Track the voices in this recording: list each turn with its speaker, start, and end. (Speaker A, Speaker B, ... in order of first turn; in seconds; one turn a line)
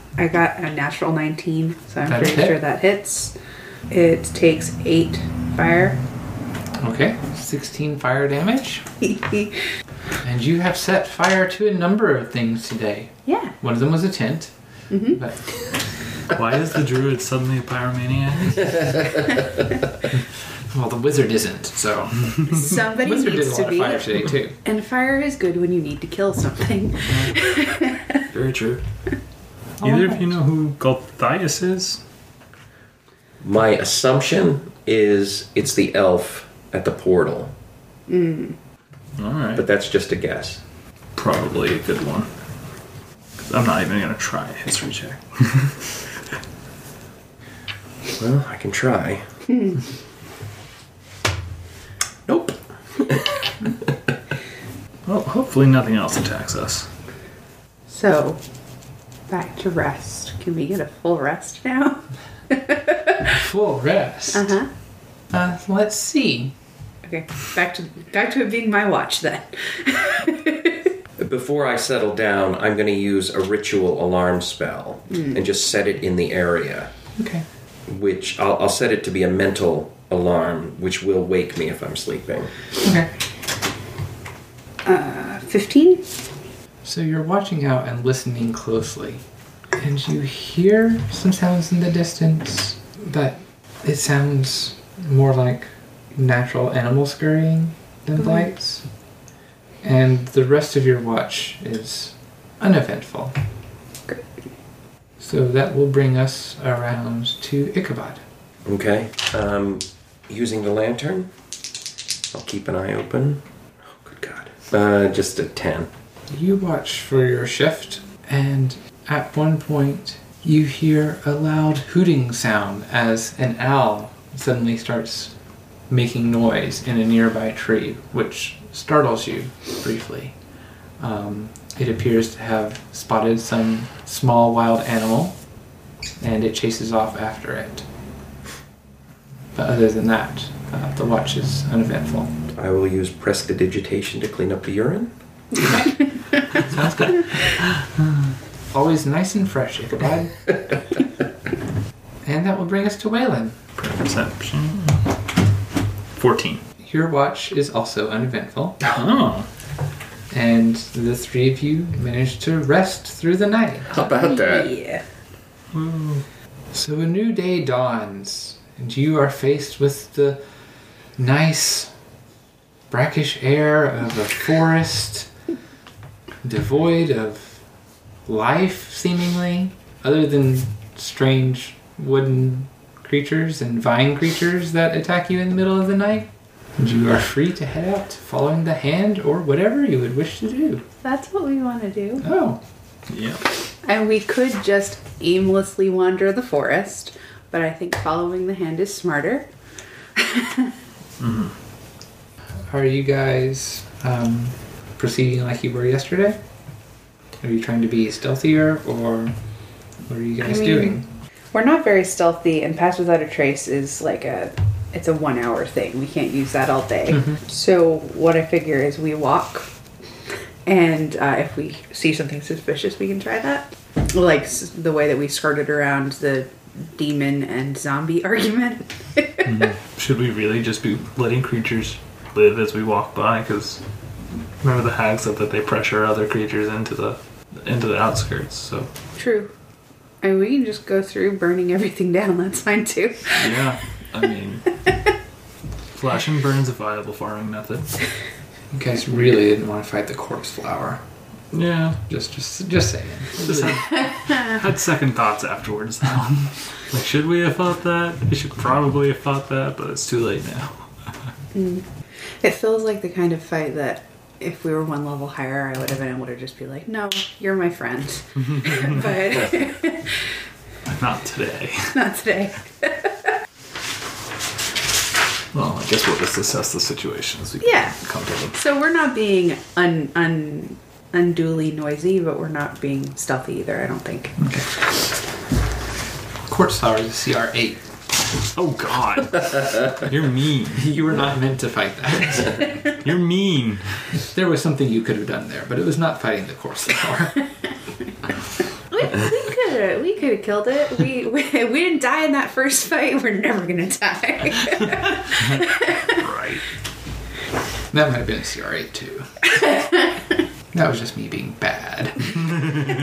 Speaker A: 0.1-3.3
Speaker B: 2.1-2.6
Speaker A: 3.9-6.0
Speaker B: 6.8-8.8
Speaker A: 9.0-9.5
Speaker B: 10.2-14.5
Speaker A: 13.2-13.5
Speaker A: 14.9-15.2
Speaker B: 15.1-15.6
Speaker C: 16.3-19.1
Speaker B: 20.7-24.6
Speaker A: 22.5-28.2
Speaker D: 28.3-28.8
Speaker B: 29.8-30.3
Speaker C: 29.8-32.0
Speaker D: 33.4-37.5
Speaker A: 38.1-38.5
Speaker C: 39.2-39.6
Speaker D: 39.5-40.6
Speaker C: 41.1-42.3
Speaker C: 43.5-46.0
Speaker D: 48.2-49.2
Speaker D: 52.3-53.9
Speaker C: 55.0-56.9
Speaker A: 57.9-58.4
Speaker A: 59.3-63.3
Speaker B: 63.2-64.5
Speaker A: 64.3-64.7
Speaker B: 65.3-66.5
Speaker A: 67.0-70.9
Speaker D: 71.2-76.9
Speaker A: 75.1-75.4
Speaker B: 77.2-77.4
Speaker D: 77.9-82.5
Speaker B: 82.8-83.1
Speaker A: 84.8-86.1
Speaker B: 86.8-89.2
Speaker B: 89.8-98.8
Speaker B: 99.8-103.3
Speaker B: 105.2-108.2
Speaker D: 108.6-111.3
Speaker D: 112.3-115.9
Speaker B: 116.3-125.3
Speaker B: 125.9-130.3
Speaker B: 131.0-135.4
Speaker B: 136.2-137.8
Speaker B: 139.5-142.3
Speaker D: 142.5-145.1
Speaker C: 146.6-147.9
Speaker B: 146.7-147.2
Speaker B: 148.7-150.7
Speaker B: 152.2-153.6
Speaker C: 153.8-155.1
Speaker C: 156.1-156.6
Speaker B: 156.8-158.8
Speaker C: 158.8-159.5
Speaker B: 160.3-163.9
Speaker D: 163.9-164.7
Speaker A: 164.1-165.0
Speaker C: 165.7-166.2
Speaker B: 166.7-170.4
Speaker B: 171.2-171.9
Speaker B: 172.9-175.3
Speaker B: 176.4-177.6
Speaker B: 178.2-190.8
Speaker A: 191.0-192.3
Speaker B: 192.2-192.6
Speaker C: 193.1-193.4
Speaker A: 193.8-199.5
Speaker A: 200.2-200.7
Speaker C: 201.2-201.5
Speaker B: 202.7-206.4
Speaker B: 207.4-209.3
Speaker B: 210.0-211.0
Speaker A: 210.4-211.0
Speaker A: 211.5-219.7
Speaker A: 220.7-229.5
Speaker C: 229.4-233.8
Speaker C: 234.6-238.9
Speaker A: 239.2-239.5
Speaker A: 240.2-243.6
Speaker C: 243.3-244.8
Speaker C: 245.9-248.0
Speaker B: 248.7-251.0
Speaker C: 251.5-252.0
Speaker B: 252.1-254.0
Speaker C: 253.4-260.9
Speaker A: 261.5-261.9
Speaker A: 262.4-270.2
Speaker C: 268.6-269.0
Speaker C: 270.9-272.0
Speaker A: 271.9-273.3
Speaker C: 275.5-278.6
Speaker A: 277.6-277.9
Speaker A: 278.5-284.4
Speaker B: 286.4-287.8
Speaker C: 288.5-290.9
Speaker B: 290.7-292.8
Speaker C: 292.9-294.1
Speaker B: 294.2-297.5
Speaker A: 298.9-306.2
Speaker C: 305.4-306.6
Speaker B: 307.9-309.5
Speaker B: 310.7-312.7